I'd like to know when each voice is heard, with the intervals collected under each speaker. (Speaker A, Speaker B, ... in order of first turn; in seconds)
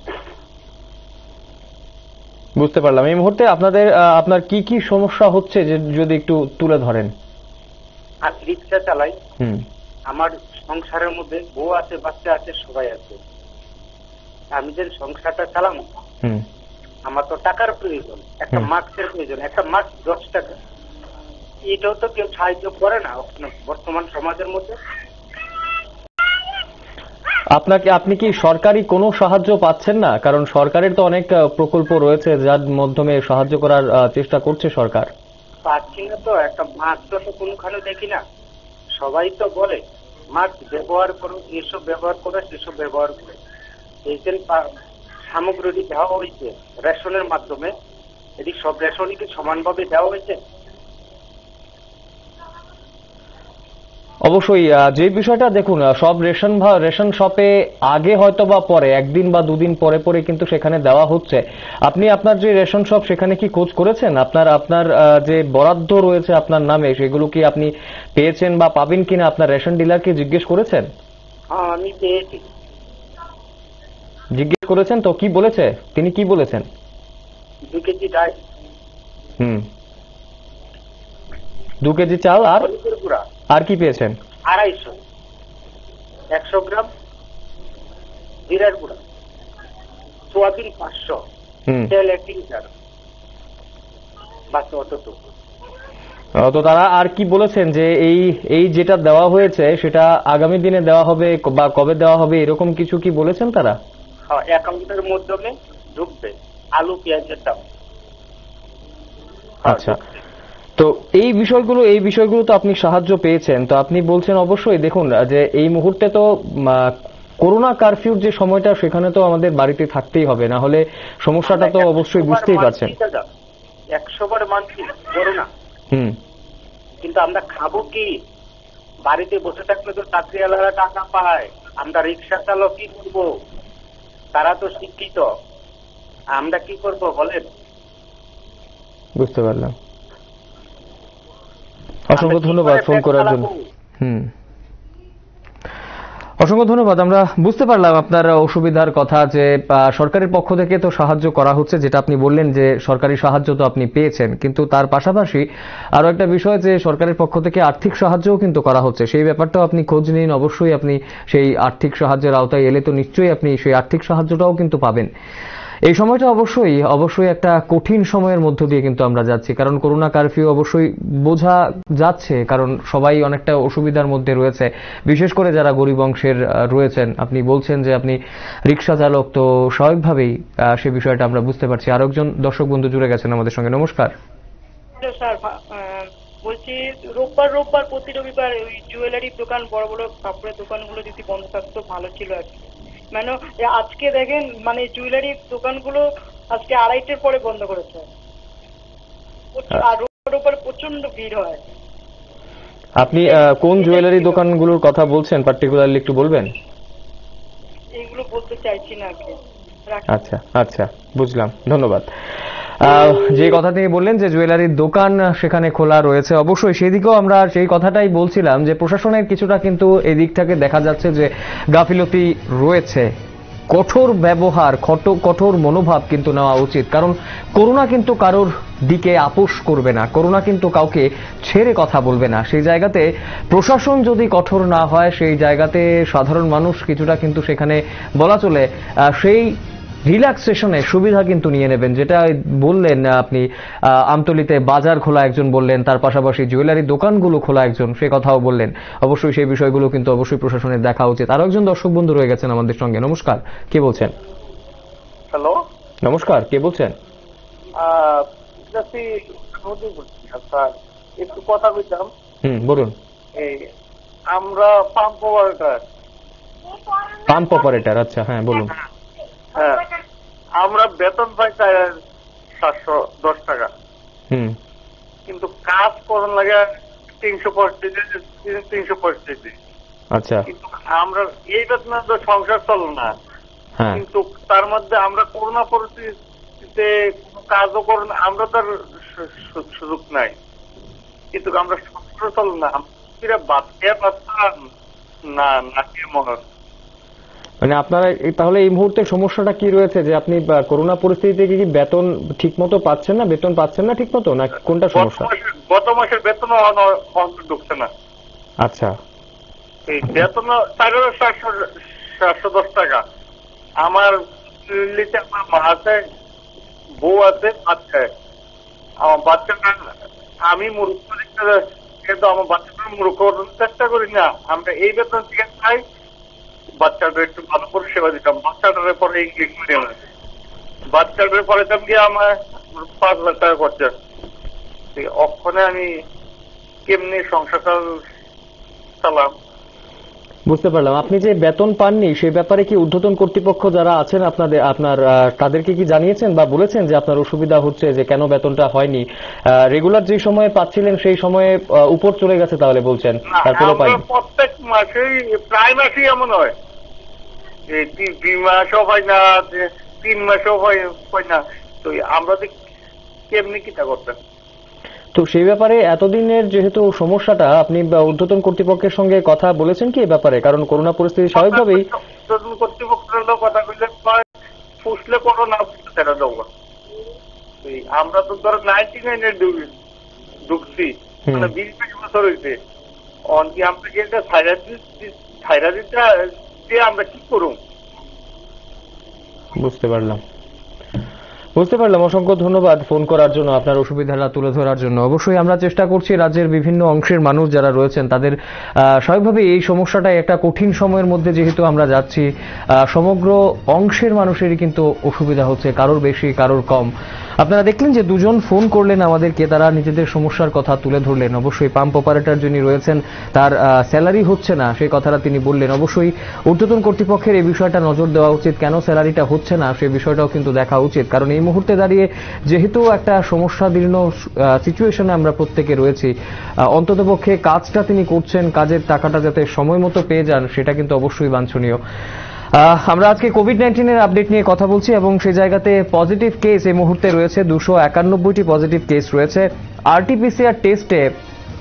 Speaker A: 2.6-7.1, 27.5-35.1, 54.2-70.9, 74.3-76.7, 79.4-79.7, 81.8-82.7, 83.5-84.2, 96.4-103.8, 109.7-110.0, 110.8-122.9, 139.2-139.7, 142.1-143.5, 144.0-144.3, 146.4-165.1, 165.9-184.1, 203.0-206.5, 210.1-212.1, 212.8-223.1, 223.7-254.1, 256.0-256.9, 262.4-262.9, 267.2-268.7, 274.3-274.6, 280.1-280.4, 297.6-305.3, 308.6-308.9, 340.5-354.0, 365.1-371.8, 381.3-381.5, 389.6-390.2, 391.6-426.1, 426.7-431.8, 432.5-441.1
Speaker B: 8.2-9.2, 10.1-13.2, 14.5-15.9, 17.1-20.5, 21.7-24.8, 35.6-38.2, 39.0-39.8, 40.3-43.4, 44.0-44.7, 45.3-47.7, 48.4-50.4, 71.5-72.4, 77.7-78.4, 82.6-83.2, 84.5-85.0, 86.3-86.9, 88.5-89.0, 90.3-91.2, 91.8-92.7, 94.5-95.2, 104.3-107.6, 109.6-110.2, 121.4-123.3, 123.9-125.5, 127.0-128.2, 129.0-133.3, 134.3-135.3, 136.3-137.4, 142.1-143.7
Speaker C: 185.0-198.1, 199.5-201.6, 203.2-204.4, 208.0-210.1
Speaker D: 255.3-255.6, 257.8-262.1, 263.3-263.7, 264.3-265.8, 269.5-269.9, 270.6-271.9, 272.6-273.7, 275.3-276.6, 277.2-279.5, 280.5-283.1, 283.9-286.1, 286.6-288.7, 289.2-290.3, 291.3-294.7, 295.3-296.4, 304.9-307.9, 309.9-313.0, 313.8-316.0, 317.0-318.1, 319.0-319.8, 320.5-325.8, 326.8-329.9, 330.9-333.9, 334.9-335.9, 336.9-338.0, 339.0-339.3, 353.3-356.5, 357.7-362.5, 363.3-364.1, 371.3-374.2, 374.8-376.5, 377.6-379.7, 380.5-382.6, 383.3-387.6